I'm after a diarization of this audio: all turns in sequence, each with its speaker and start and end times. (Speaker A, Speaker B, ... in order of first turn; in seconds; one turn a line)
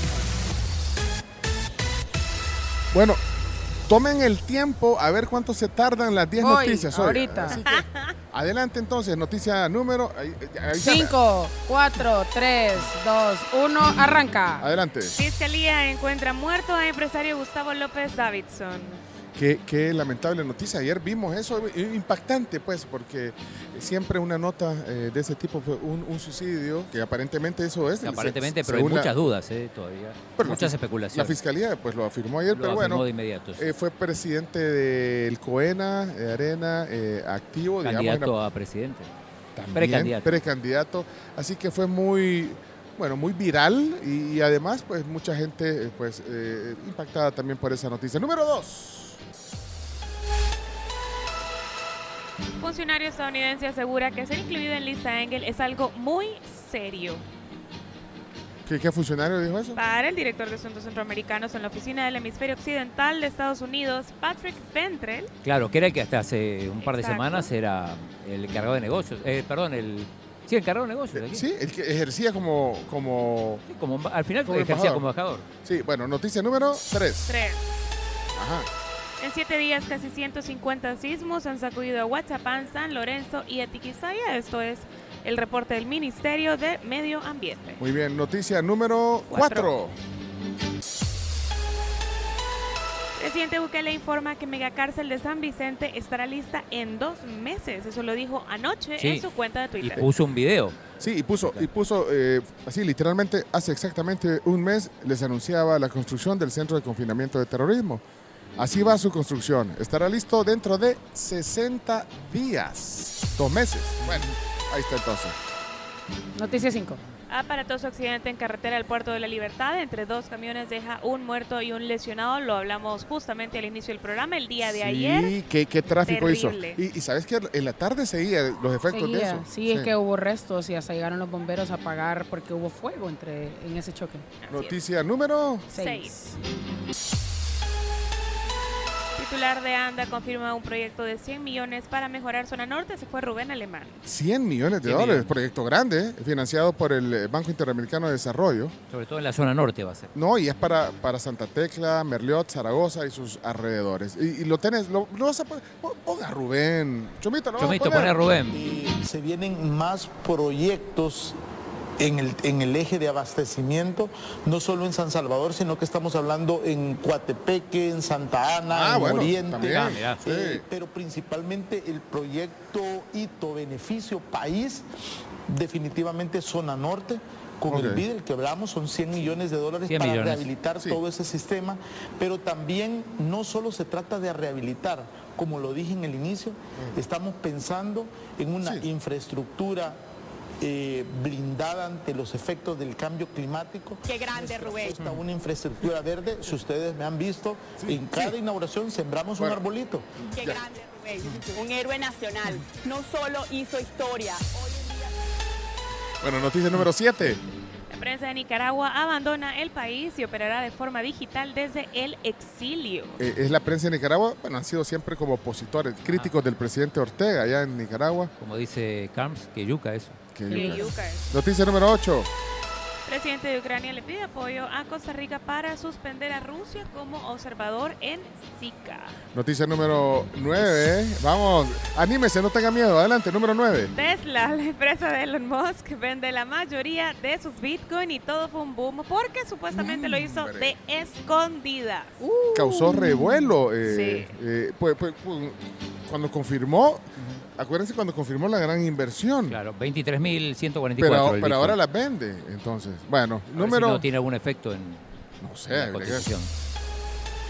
Speaker A: 2.9-3.2
Speaker A: 3.9-11.2
Speaker B: 6.4-7.6
Speaker C: 7.5-8.1
Speaker B: 10.8-14.7
Speaker A: 14.6-15.2
Speaker C: 15.1-19.0
Speaker A: 19.3-29.1
Speaker D: 28.0-31.4
Speaker A: 30.3-38.3
Speaker D: 32.5-33.7
Speaker D: 37.8-39.1
Speaker A: 39.5-49.2
Speaker D: 39.7-40.5
Speaker C: 52.6-57.2
Speaker A: 58.6-59.8
Speaker C: 59.7-65.3
Speaker D: 65.4-71.4
Speaker C: 66.8-67.5
Speaker A: 71.1-73.6
Speaker D: 73.7-75.5
Speaker A: 74.4-75.1
Speaker A: 75.6-77.3
Speaker C: 77.3-77.6
Speaker A: 78.3-78.7
Speaker C: 79.2-87.8
Speaker A: 87.8-89.9
Speaker C: 89.3-89.7
Speaker C: 93.2-100.1
Speaker D: 99.0-99.3
Speaker D: 99.8-100.9
Speaker A: 101.0-108.0
Speaker D: 101.4-101.7
Speaker A: 108.6-115.3
Speaker B: 116.3-117.0
Speaker C: 117.3-125.4
Speaker A: 124.6-129.9
Speaker C: 126.0-126.8
Speaker B: 128.9-134.2
Speaker C: 134.4-134.8
Speaker A: 134.5-135.7
Speaker B: 135.7-136.3
Speaker C: 135.7-136.1
Speaker C: 139.2-144.0
Speaker A: 144.0-148.7
Speaker D: 144.8-145.3
Speaker D: 148.9-150.1
Speaker A: 150.1-158.2
Speaker D: 157.6-158.6
Speaker E: 158.5-161.4
Speaker E: 162.0-174.8
Speaker A: 168.7-170.6
Speaker D: 169.5-170.2
Speaker E: 175.5-190.0
Speaker A: 177.7-178.0
Speaker D: 179.8-180.5
Speaker E: 190.6-200.2
Speaker F: 194.1-195.0
Speaker A: 197.8-198.3
Speaker F: 200.3-205.1
Speaker A: 200.4-200.7
Speaker A: 206.2-207.4
Speaker C: 207.9-213.2
Speaker A: 213.2-218.3
Speaker D: 216.0-216.3
Speaker D: 218.4-220.2
Speaker A: 220.3-222.3
Speaker B: 220.5-220.9
Speaker C: 220.5-221.3
Speaker C: 223.1-229.1
Speaker A: 229.3-233.9
Speaker C: 233.9-242.2
Speaker A: 239.7-240.8
Speaker B: 242.2-243.5
Speaker A: 242.5-249.6
Speaker C: 243.8-244.3
Speaker D: 249.5-251.8
Speaker A: 251.0-254.1
Speaker D: 253.5-255.0
Speaker A: 255.4-256.4
Speaker D: 255.7-256.5